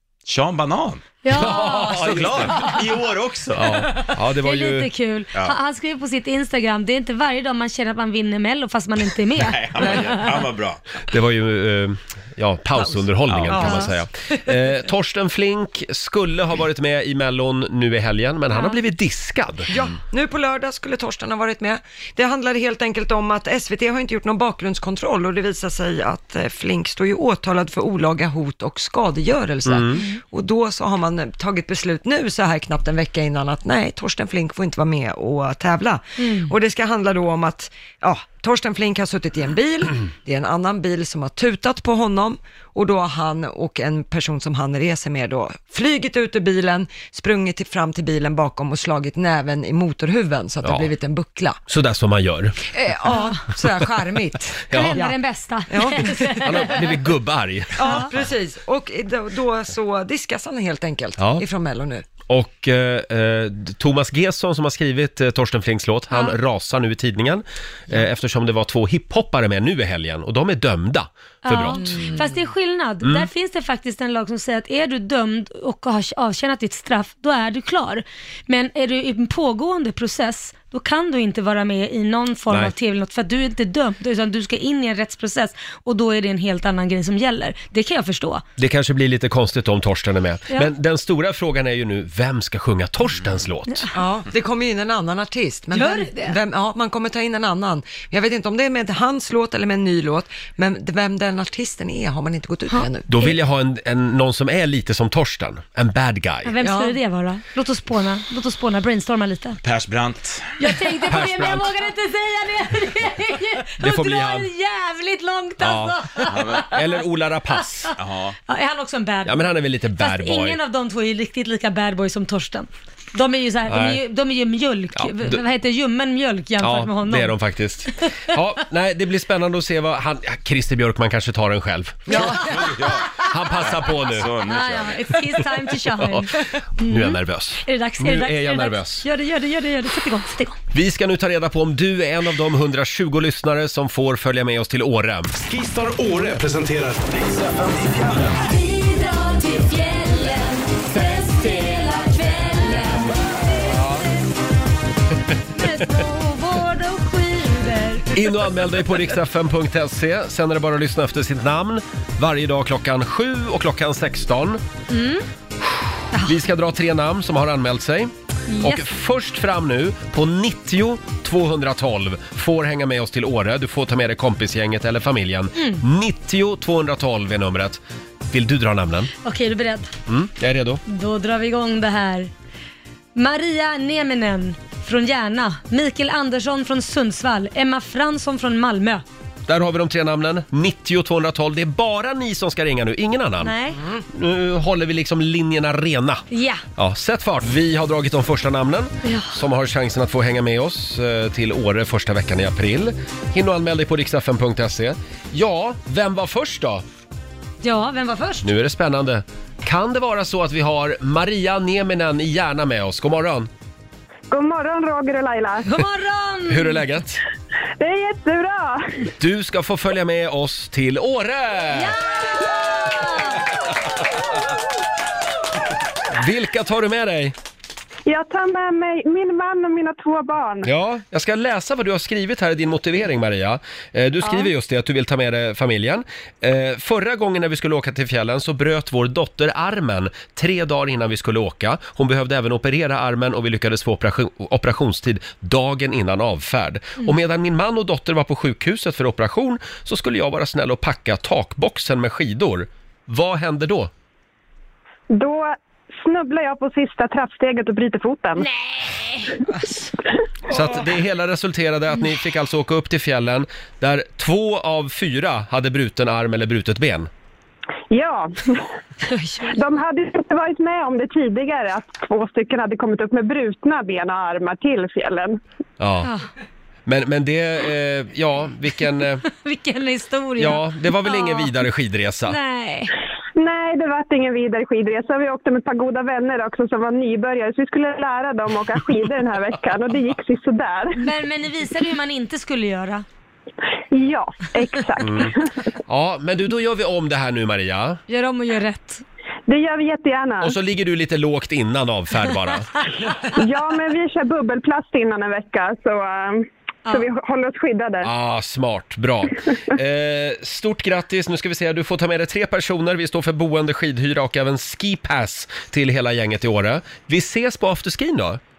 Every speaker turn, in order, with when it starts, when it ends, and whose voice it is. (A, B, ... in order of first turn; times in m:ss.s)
0:00.3-0:03.9 A
0:01.2-0:02.8 B
0:01.3-0:02.7 C
0:03.5-0:04.9 C
0:04.4-0:10.4 B
0:09.4-0:10.8 A
0:09.8-0:10.2 D
0:11.1-0:19.7 C
0:13.3-0:13.6 A
0:13.5-0:13.9 D
0:13.6-0:13.9 B
0:19.7-0:51.6 D
0:29.7-0:30.0 C
0:36.2-0:36.5 B
0:51.7-0:52.6 C
0:52.7-0:55.2 D
0:54.7-0:55.0 C
0:54.7-0:56.9 B
0:55.7-0:56.7 D
0:56.4-0:58.0 C
0:57.8-1:02.0 D
0:57.8-0:58.1 B
1:02.3-1:11.9 C
1:11.4-1:28.4 B
1:11.8-1:12.3 D
1:13.0-1:13.3 C
1:28.6-1:33.9 C
1:33.9-1:43.4 D
1:35.7-1:36.4 B
1:43.1-1:46.5 C
1:46.5-1:49.6 B
1:46.6-1:47.0 D
1:49.6-1:50.6 A
1:50.6-1:56.8 B
1:51.1-1:51.7 C
1:53.8-1:54.5 C
1:55.6-1:57.9 C
1:56.3-1:56.8 A
1:58.0-1:58.4 A
1:58.5-2:07.4 B
1:59.3-2:00.6 C
2:03.7-2:04.0 C
2:05.0-2:05.4 C
2:06.6-2:12.4 C
2:12.1-2:12.5 D
2:12.1-2:13.2 B
2:12.1-2:15.4 A
2:13.2-2:14.3 C
2:14.4-2:20.6 B
2:16.0-2:19.1 C
2:20.7-2:25.4 C
2:25.4-2:28.4 E
2:28.6-2:33.1 B
2:35.6-2:38.1 B
2:38.1-2:44.6 C
2:44.9-2:45.2 B
2:46.1-2:59.1 C
2:48.5-2:48.9 B
2:55.6-2:55.8 B
2:59.2-2:59.9 B
3:00.1-3:00.8 C
3:00.9-3:02.3 B
3:03.2-3:09.0 B
3:09.5-3:13.5 C
3:13.4-3:13.8 B
3:14.1-3:16.2 C
3:16.3-3:16.6 B
3:16.8-3:26.8 C
3:19.0-3:19.3 B
3:27.6-3:28.5 B
3:28.4-3:33.5 C
3:34.3-3:35.8 F
3:35.6-3:36.8 B
3:36.5-3:37.2 C
3:37.8-3:39.0 F
3:39.2-3:42.0 C
3:41.7-3:43.4 B
3:46.1-3:47.4 C
3:48.1-3:50.7 F
3:50.6-4:13.9 C
4:15.1-4:18.5 F
4:18.4-4:19.8 B
4:20.5-4:27.1 C
4:27.9-4:28.6 F
4:29.1-4:29.6 B
4:29.5-4:35.4 F
4:35.8-4:36.1 C
4:36.9-4:39.2 C
4:39.2-4:41.6 B
4:40.4-4:42.4 C
4:42.3-4:42.9 B
4:43.4-4:51.0 F
4:51.0-4:53.0 B
4:53.9-4:55.5 F
4:55.0-4:55.3 C
4:55.9-4:58.0 C
4:58.1-4:59.0 B
4:59.5-5:00.6 F
5:00.4-5:02.7 C
5:03.4-5:08.1 F
5:08.0-5:18.4 C